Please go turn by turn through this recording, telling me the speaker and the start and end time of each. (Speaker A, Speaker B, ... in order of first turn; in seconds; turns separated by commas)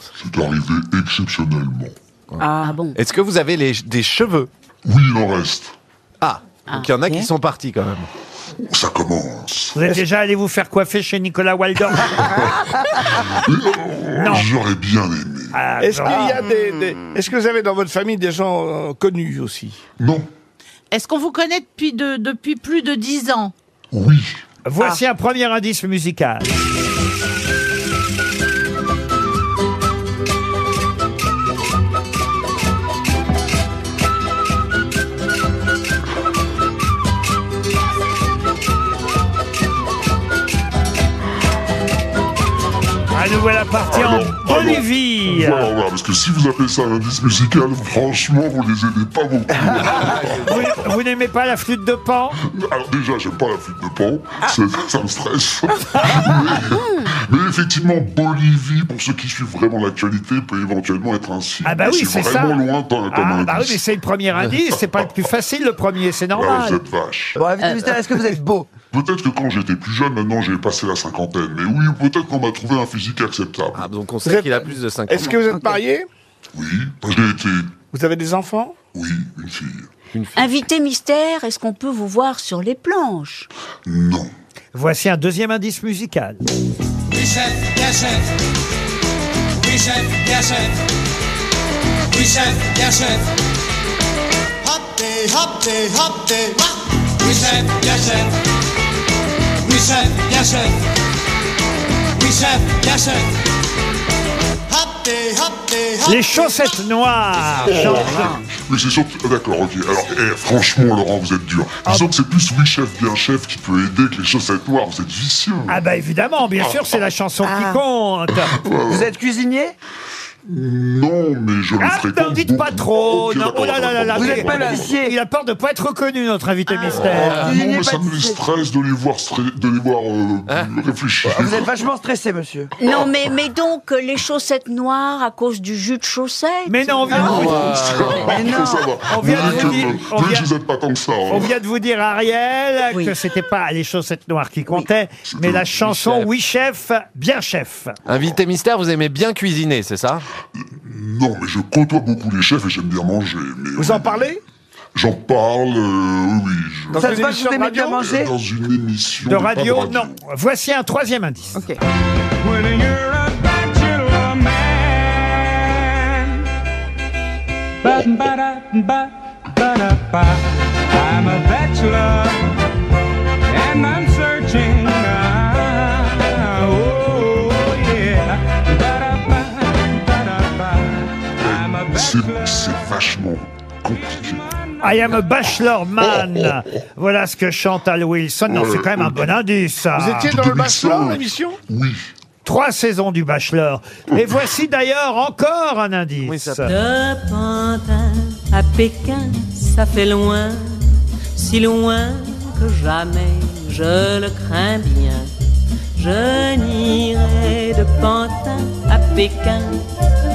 Speaker A: 0.2-1.9, Speaker B: 2.3-4.5, Speaker C: 2.4-2.8, Speaker D: 2.6-3.0, Speaker A: 4.8-5.7, Speaker B: 6.2-8.1, Speaker C: 7.0-7.3, Speaker A: 8.7-9.8, Speaker E: 9.7-12.3, Speaker A: 12.2-15.5, Speaker E: 14.2-14.5, Speaker E: 15.5-16.4, Speaker F: 15.8-19.8, Speaker C: 16.3-17.1, Speaker A: 20.0-20.3, Speaker G: 20.9-23.5, Speaker A: 23.9-24.4, Speaker E: 24.6-26.5, Speaker E: 43.1-45.7, Speaker A: 43.9-50.5, Speaker E: 50.5-52.4, Speaker A: 52.5-63.8, Speaker E: 61.6-66.8, Speaker A: 64.7-65.2, Speaker A: 66.3-67.4, Speaker H: 67.4-68.7, Speaker A: 68.9-73.9, Speaker B: 73.7-75.4, Speaker F: 74.2-76.1, Speaker C: 75.5-75.8, Speaker A: 76.5-77.8, Speaker F: 77.9-78.8, Speaker A: 78.9-79.9, Speaker D: 80.4-83.5, Speaker A: 83.9-84.3, Speaker E: 84.7-86.4, Speaker C: 87.1-88.2, Speaker C: 89.7-90.6, Speaker C: 92.1-93.2, Speaker C: 94.7-96.5, Speaker C: 97.2-98.3, Speaker C: 99.7-100.7, Speaker C: 102.2-103.2, Speaker C: 104.8-106.0, Speaker E: 106.0-108.4, Speaker A: 107.5-115.8, Speaker E: 111.8-112.1, Speaker E: 115.7-118.5, Speaker A: 116.6-117.0, Speaker A: 118.4-119.1, Speaker H: 118.9-119.7, Speaker A: 120.5-125.0, Speaker E: 121.8-127.6, Speaker H: 124.1-125.2, Speaker A: 126.9-131.7, Speaker H: 127.1-128.4, Speaker H: 131.2-132.7, Speaker D: 132.8-137.4, Speaker E: 136.7-137.7, Speaker A: 137.1-141.5, Speaker B: 137.2-138.5, Speaker H: 138.2-139.6, Speaker E: 139.1-140.5, Speaker E: 141.3-147.9, Speaker A: 145.3-146.2, Speaker B: 146.0-146.2, Speaker B: 148.1-150.2, Speaker A: 148.1-148.4, Speaker A: 150.6-154.3, Speaker F: 153.8-154.4, Speaker A: 154.9-157.2, Speaker F: 156.9-158.1, Speaker H: 156.9-158.3, Speaker A: 157.9-160.1, Speaker E: 159.2-161.6, Speaker A: 181.4-184.5, Speaker E: 184.8-190.3, Speaker A: 186.0-186.6, Speaker A: 188.5-189.4, Speaker F: 189.9-191.6, Speaker A: 190.3-192.1, Speaker E: 192.4-196.7, Speaker B: 196.2-196.7, Speaker I: 196.7-205.3, Speaker I: 205.9-209.8